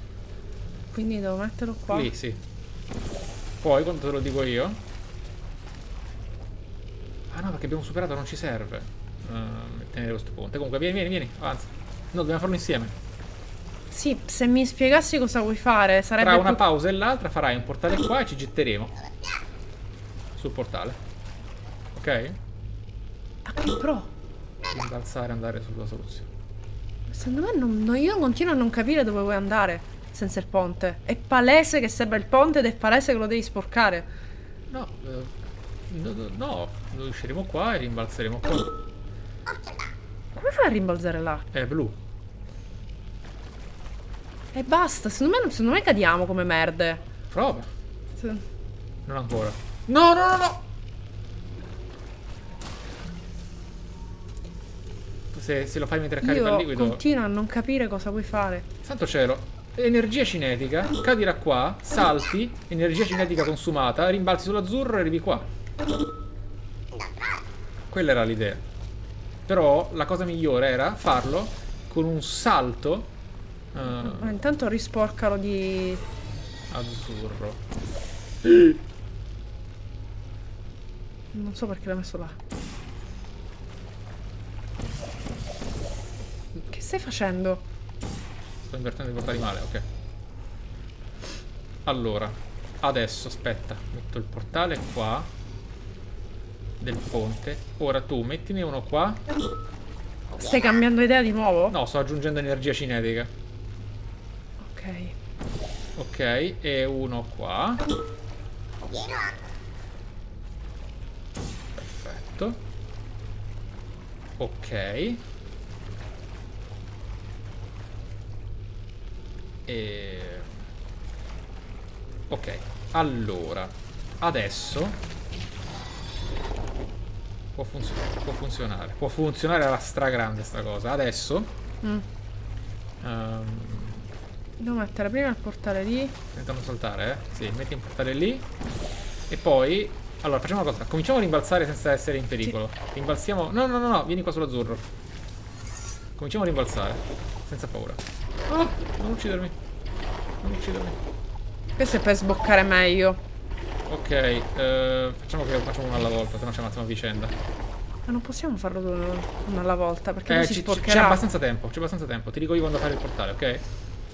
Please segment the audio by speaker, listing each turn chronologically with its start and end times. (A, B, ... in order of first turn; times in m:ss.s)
0:00.9-0:02.1 A
0:01.9-0:02.4 B
0:03.6-0:04.8 B
0:07.3-0:13.0 B
0:13.9-0:16.6 A
0:16.2-0:19.0 B
0:20.4-0:21.0 B
0:21.9-0:22.4 B
0:23.5-0:24.1 A
0:24.7-0:26.3 B
0:27.1-0:34.1 A
0:34.7-0:35.3 B
0:35.9-0:38.7 B
0:40.4-0:41.5 A
0:41.5-0:42.0 B
0:44.5-0:47.0 A
0:47.3-0:47.7 B
0:48.2-0:48.4 A
0:49.1-0:50.6 B
0:55.3-0:57.0 B
0:56.2-0:58.7 A
0:58.8-1:05.5 B
1:07.9-1:08.6 B
1:09.5-1:13.1 B
1:13.7-1:14.4 B
1:13.9-1:16.0 A
1:16.7-1:17.6 B
1:18.4-1:18.8 B
1:21.3-1:22.4 A
1:26.7-1:27.6 A
1:28.7-1:29.8 B
1:31.8-1:35.3 B
1:36.8-1:39.2 B
1:40.4-1:41.8 A
1:41.7-1:43.3 B
1:44.6-1:45.2 A
1:46.0-1:47.8 B
1:51.8-1:52.6 B
1:54.4-1:55.2 B
1:59.7-2:00.6 B
2:02.3-2:05.0 B
2:07.6-2:11.5 B
2:13.0-2:14.1 B
2:14.6-2:16.2 A
2:16.3-2:18.5 B
2:19.3-2:24.9 B
2:26.2-2:29.6 B
2:30.4-2:31.0 B
2:31.8-2:33.2 A
2:33.9-2:37.4 B
2:38.1-2:41.2 A
2:40.3-2:43.6 B